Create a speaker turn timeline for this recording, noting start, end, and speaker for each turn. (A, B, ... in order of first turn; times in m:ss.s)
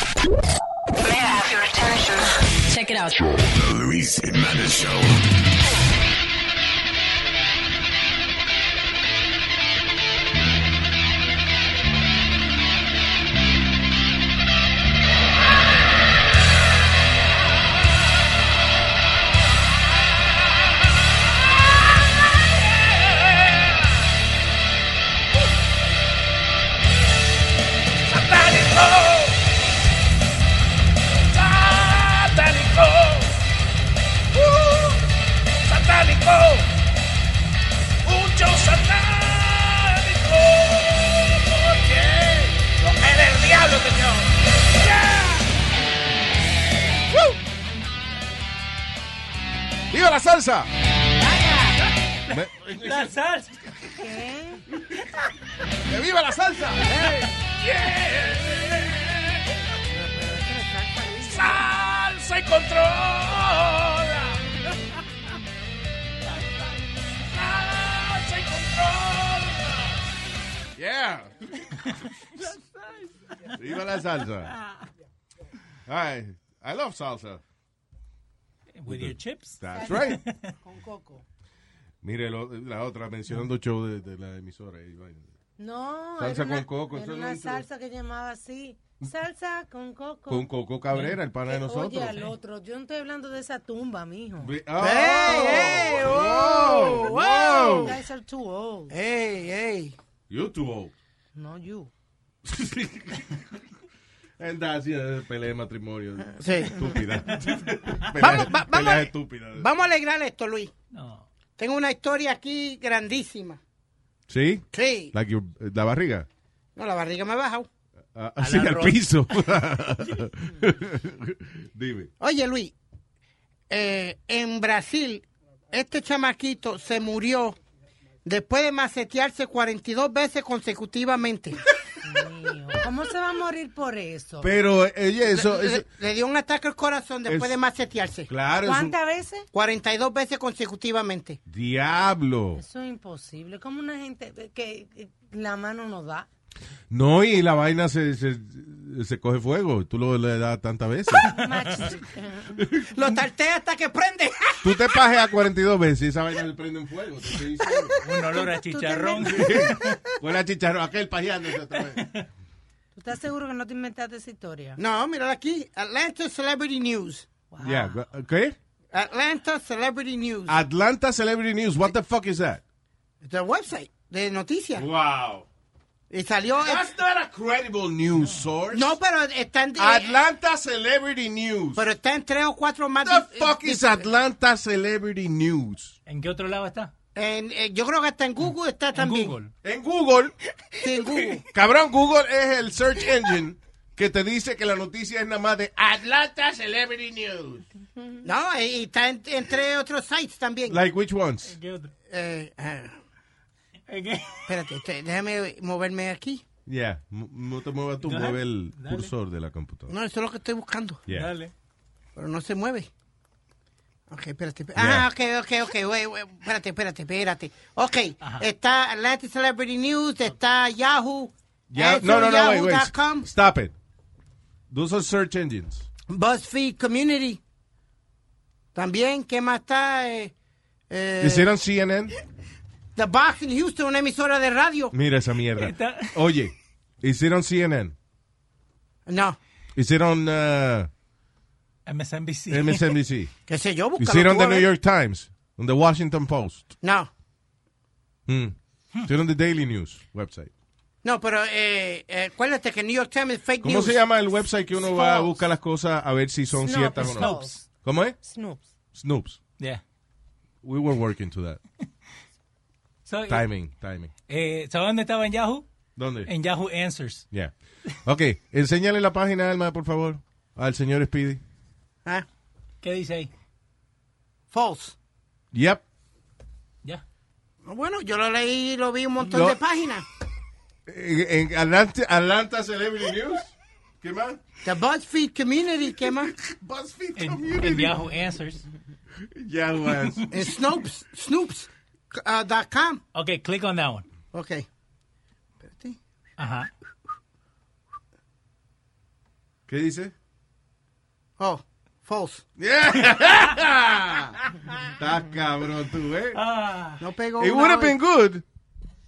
0:01.0-0:03.2 A
0:03.3-0:05.3 B
0:22.8-0:23.8 C
0:28.1-0:29.4 C
0:31.3-0:33.4 C
0:34.3-0:35.0 C
0:35.6-0:36.7 C
0:38.0-0:45.4 C
0:49.9-0:50.7 D
0:52.3-0:53.2 D
0:52.3-0:53.9 E
0:54.0-0:54.6 F
0:55.9-0:57.2 D
0:57.4-0:59.4 C
0:59.9-1:01.7 F
1:01.2-1:04.4 C
1:07.3-1:10.0 C
1:10.8-1:11.6 D
1:13.5-1:14.6 D
1:15.9-1:17.4 D
1:18.8-1:20.5 E
1:18.9-1:20.2 D
1:19.7-1:21.2 F
1:22.0-1:25.3 D
1:25.6-1:30.5 F
1:26.2-1:27.6 D
1:30.3-1:32.2 D
1:30.9-1:31.2 E
1:31.5-1:36.1 F
1:34.4-1:38.0 D
1:34.8-1:38.0 G
1:37.5-1:39.0 F
1:38.9-1:40.0 G
1:40.3-1:40.9 D
1:41.4-1:41.9 F
1:42.4-1:43.4 D
1:44.4-1:49.7 D
1:46.4-1:46.9 G
1:48.2-1:50.7 G
1:50.9-1:51.3 E
1:51.6-1:53.6 G
1:54.3-1:56.3 D
1:54.7-1:55.1 G
1:56.8-1:57.7 G
1:58.2-2:02.1 D
1:58.4-1:59.0 E
2:02.2-2:02.8 G
2:03.7-2:07.6 G
2:08.2-2:11.6 G
2:12.0-2:14.5 F
2:14.4-2:15.8 D
2:15.3-2:18.3 G
2:17.3-2:17.6 D
2:18.3-2:19.0 D
2:18.6-2:19.5 F
2:19.5-2:21.4 G
2:21.5-2:22.6 D
2:22.6-2:26.3 F
2:26.9-2:31.4 D
2:31.2-2:32.7 F
2:32.9-2:35.0 G
2:34.6-2:38.0 D
2:37.6-2:38.4 G
2:38.0-2:39.9 E
2:38.7-2:39.5 F
2:39.2-2:42.1 D
2:42.0-2:42.3 E
2:43.0-2:44.8 F
2:44.8-2:47.3 G
2:47.5-2:48.0 F
2:47.6-2:48.6 D
2:48.9-2:50.6 G
2:50.5-2:52.6 D
2:53.2-2:54.9 G
2:54.8-2:55.5 D
2:56.1-2:56.9 G
2:56.6-2:59.0 D
2:58.7-3:00.2 G
2:59.8-3:01.9 D
3:01.8-3:04.0 G
3:03.0-3:06.0 D
3:06.1-3:06.9 E
3:07.2-3:09.4 G
3:08.9-3:09.5 E
3:09.6-3:10.3 D
3:10.8-3:11.4 G
3:11.5-3:16.1 D
3:15.9-3:17.6 C
3:16.8-3:17.3 D
3:18.2-3:20.8 G
3:20.7-3:21.6 D
3:21.5-3:21.9 E
3:22.1-3:23.0 G
3:23.9-3:24.5 E
3:24.5-3:26.4 G
3:26.7-3:29.9 D
3:28.0-3:29.1 E
3:29.9-3:31.0 G
3:31.1-3:31.5 E
3:32.2-3:32.9 G
3:34.1-3:43.3 G
3:34.8-3:35.1 D
3:38.2-3:38.5 E
3:41.7-3:43.7 D
3:44.7-3:45.9 D
3:46.1-3:47.4 G
3:48.8-3:50.3 G
3:50.9-3:51.5 G
3:51.2-3:52.2 D
3:53.0-3:55.0 G
3:54.9-3:58.0 D
3:55.6-3:56.2 E
3:59.1-3:59.4 G
3:59.8-4:00.9 D
4:01.9-4:02.9 E
4:02.5-4:03.3 D
4:03.5-4:04.7 G
4:04.0-4:06.7 D
4:06.8-4:07.1 G
4:08.3-4:10.5 D
4:11.0-4:14.0 G
4:13.6-4:18.2 D
4:14.8-4:15.4 F
4:16.5-4:17.6 F
4:17.0-4:17.6 E
4:18.2-4:18.6 F
4:19.0-4:19.4 D
4:20.6-4:21.6 D
4:23.1-4:23.5 E
4:23.3-4:24.1 D
4:24.3-4:25.7 E
4:26.0-4:26.3 D
4:26.2-4:27.3 E
4:27.3-4:31.4 D
4:32.8-4:33.3 E
4:34.5-4:35.0 G
4:35.5-4:35.8 D
4:37.6-4:40.1 G
4:39.2-4:39.6 D
4:40.9-4:44.4 D
4:44.6-4:46.3 G
4:46.3-4:48.0 D
4:47.2-4:48.7 E
4:49.2-4:50.6 D
4:50.3-4:53.0 G
4:53.1-4:54.1 E
4:54.3-4:54.7 G
4:55.6-4:56.0 G
4:56.4-4:56.7 E
4:59.7-5:00.1 D
5:01.4-5:02.4 G
5:02.6-5:06.4 D
5:06.3-5:07.0 E
5:07.0-5:08.0 G
5:07.4-5:08.4 D